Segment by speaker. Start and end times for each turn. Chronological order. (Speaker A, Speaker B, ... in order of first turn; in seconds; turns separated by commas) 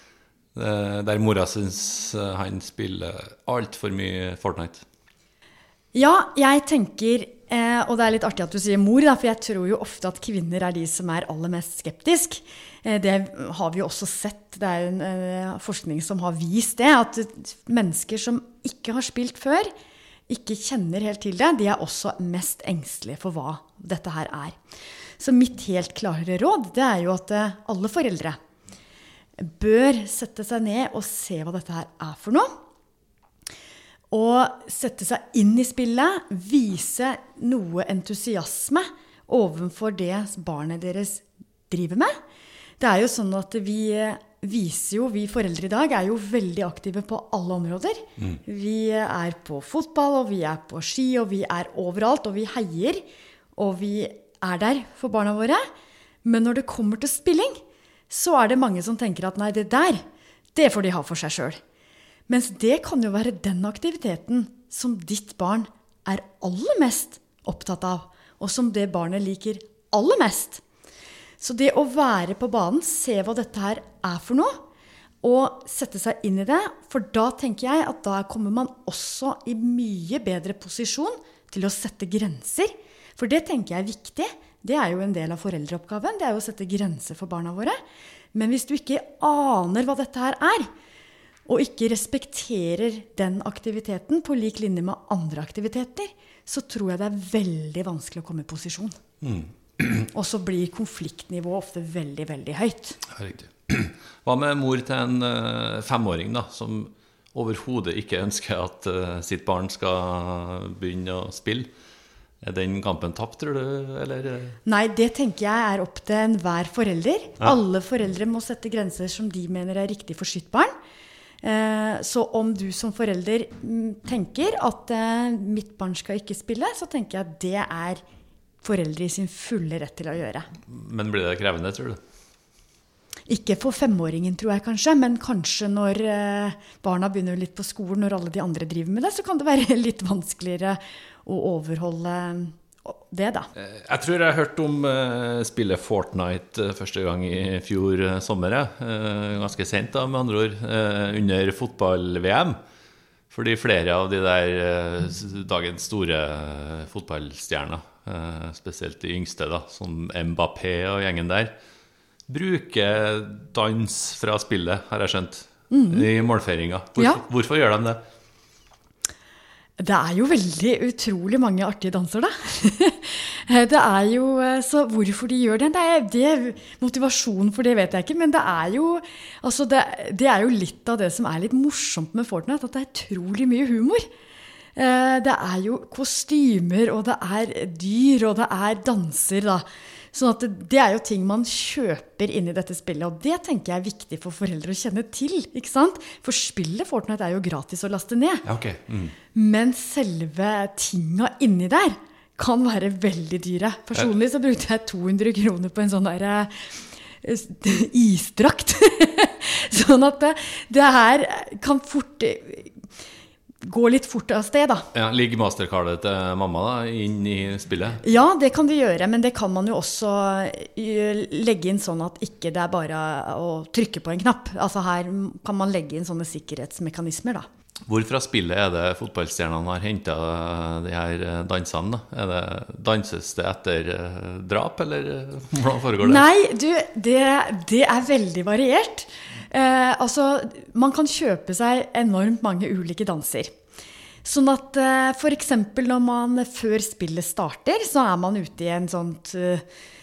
Speaker A: 0.5-4.8, Speaker B: 5.9-19.7, Speaker B: 20.3-24.6, Speaker B: 25.2-28.4, Speaker B: 29.4-32.5, Speaker B: 34.1-42.2, Speaker B: 42.8-53.0, Speaker B: 53.6-55.6, Speaker B: 56.2-60.0, Speaker B: 60.5-61.6, Speaker B: 62.3-70.6, Speaker B: 71.4-74.6, Speaker B: 75.2-87.8, Speaker B: 88.3-90.7, Speaker B: 91.5-99.0, Speaker A: 99.2-100.1, Speaker B: 100.1-103.0, Speaker A: 103.1-111.7, Speaker A: 112.4-114.6, Speaker B: 114.7-120.7, Speaker B: 121.4-128.0, Speaker B: 128.6-130.5, Speaker A: 130.7-132.0, Speaker B: 133.3-143.5, Speaker A: 143.5-152.6, Speaker A: 153.3-161.5, Speaker A: 162.3-168.0, Speaker B: 165.7-166.1, Speaker B: 169.8-184.1, Speaker B: 184.8-198.4, Speaker A: 198.4-199.1, Speaker B: 199.3-206.7, Speaker B: 207.2-212.8, Speaker B: 213.6-214.9, Speaker A: 214.9-218.0, Speaker B: 218.0-227.4, Speaker A: 227.9-236.2, Speaker B: 236.0-243.5, Speaker B: 244.2-249.6